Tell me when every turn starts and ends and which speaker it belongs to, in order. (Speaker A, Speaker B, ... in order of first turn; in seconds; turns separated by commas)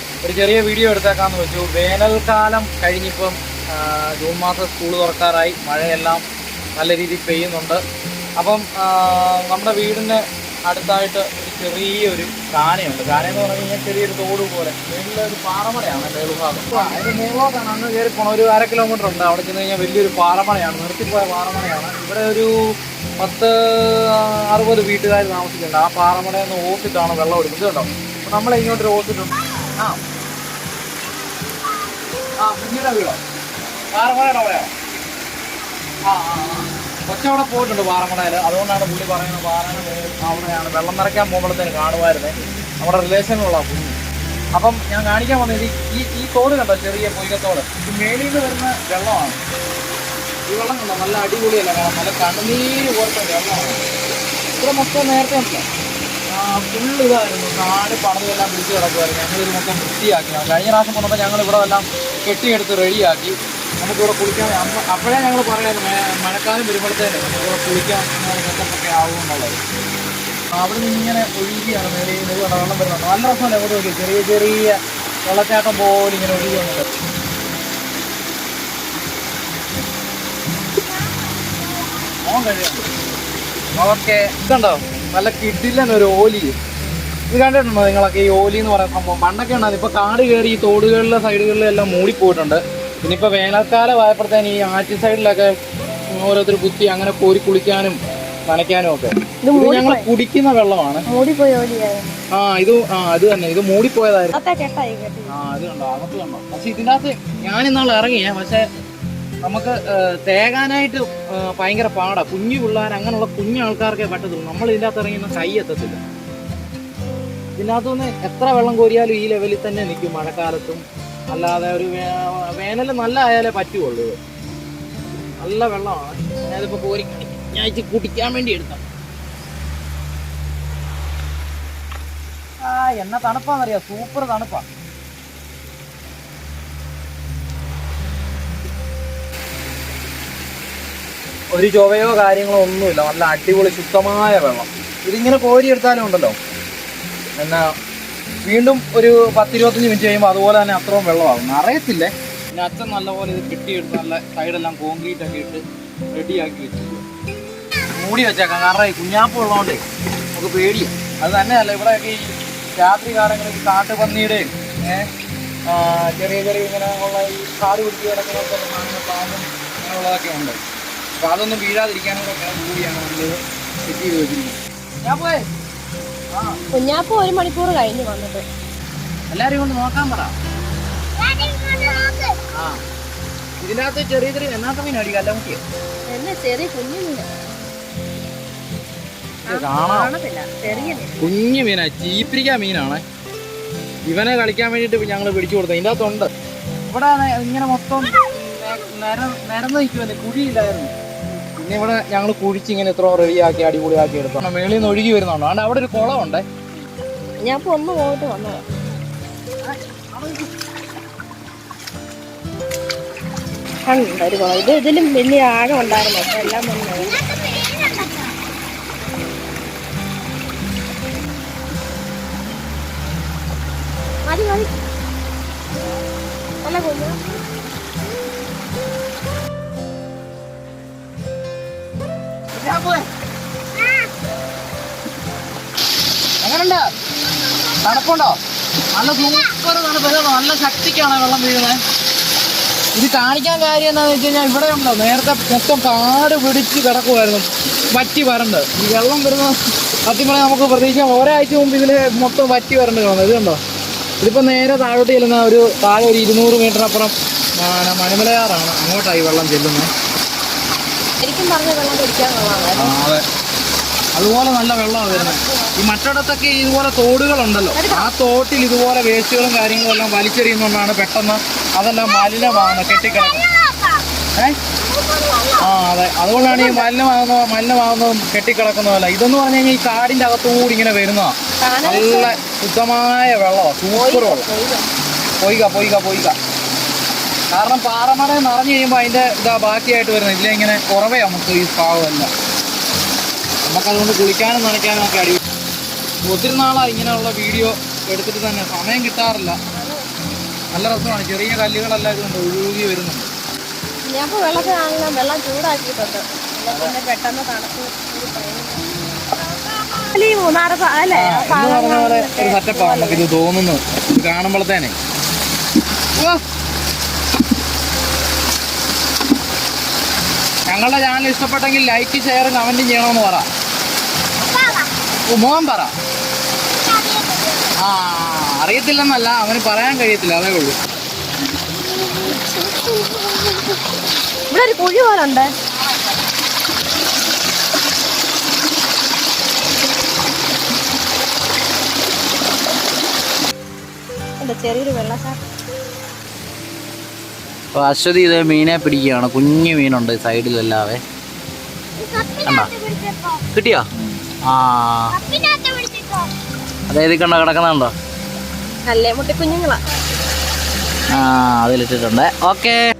Speaker A: 0.2-6.2, Speaker A: 6.8-7.8, Speaker A: 8.4-22.5, Speaker B: 16.7-17.1, Speaker A: 23.2-30.0, Speaker A: 32.4-33.2, Speaker A: 33.9-34.7, Speaker A: 36.1-44.0, Speaker A: 44.5-49.4, Speaker A: 50.5-53.8, Speaker A: 54.6-55.6, Speaker A: 56.3-69.6, Speaker A: 70.5-76.9, Speaker A: 82.2-82.9, Speaker A: 83.8-86.5, Speaker A: 87.3-95.5, Speaker A: 96.1-101.0, Speaker B: 99.4-100.0, Speaker B: 101.1-102.1, Speaker A: 102.3-104.3, Speaker B: 104.3-105.4, Speaker A: 105.3-108.7, Speaker A: 109.4-116.0, Speaker A: 117.6-124.2, Speaker A: 125.4-128.8, Speaker A: 132.6-134.7, Speaker A: 141.5-146.3, Speaker A: 147.4-147.7, Speaker A: 148.4-157.0, Speaker A: 157.9-159.8, Speaker A: 160.3-165.1, Speaker A: 165.7-170.6, Speaker A: 171.2-175.5, Speaker A: 176.3-176.6, Speaker B: 176.7-178.4, Speaker A: 179.3-180.3, Speaker B: 181.2-182.3, Speaker A: 182.5-182.8, Speaker A: 183.6-185.6, Speaker B: 186.1-187.3, Speaker B: 189.4-191.3, Speaker A: 189.5-190.1, Speaker A: 190.7-193.0, Speaker A: 194.1-196.3, Speaker A: 196.9-200.9, Speaker A: 201.6-206.4, Speaker B: 207.4-208.6, Speaker A: 209.6-210.5, Speaker B: 213.9-218.3, Speaker B: 224.2-224.7, Speaker B: 226.6-227.2, Speaker A: 232.5-233.1, Speaker A: 236.4-236.9, Speaker A: 237.8-238.4, Speaker A: 238.9-241.8, Speaker A: 242.9-253.6, Speaker A: 254.2-259.9, Speaker B: 261.2-262.9, Speaker A: 262.8-263.2, Speaker A: 264.1-273.5, Speaker B: 265.1-265.8, Speaker B: 267.7-268.1, Speaker B: 272.1-274.0, Speaker B: 274.8-275.7, Speaker A: 275.6-284.4, Speaker B: 276.4-276.9, Speaker B: 281.6-282.4, Speaker B: 283.9-284.9, Speaker A: 285.4-286.3, Speaker A: 287.5-292.3, Speaker A: 293.6-295.4, Speaker A: 296.2-299.6, Speaker B: 299.7-300.4, Speaker A: 300.7-303.3, Speaker B: 304.1-313.2, Speaker A: 311.1-314.9, Speaker A: 316.1-316.4, Speaker A: 320.7-323.5, Speaker B: 324.4-324.9, Speaker A: 325.3-325.9, Speaker B: 326.8-327.7, Speaker A: 327.8-330.8, Speaker B: 331.8-333.8, Speaker B: 334.5-335.5, Speaker B: 344.4-345.4, Speaker A: 347.7-351.0, Speaker B: 352.0-353.5, Speaker A: 352.4-352.7, Speaker A: 353.5-353.9, Speaker A: 354.4-355.1, Speaker B: 355.1-356.3, Speaker A: 356.9-357.9, Speaker B: 358.9-359.8, Speaker A: 361.1-362.8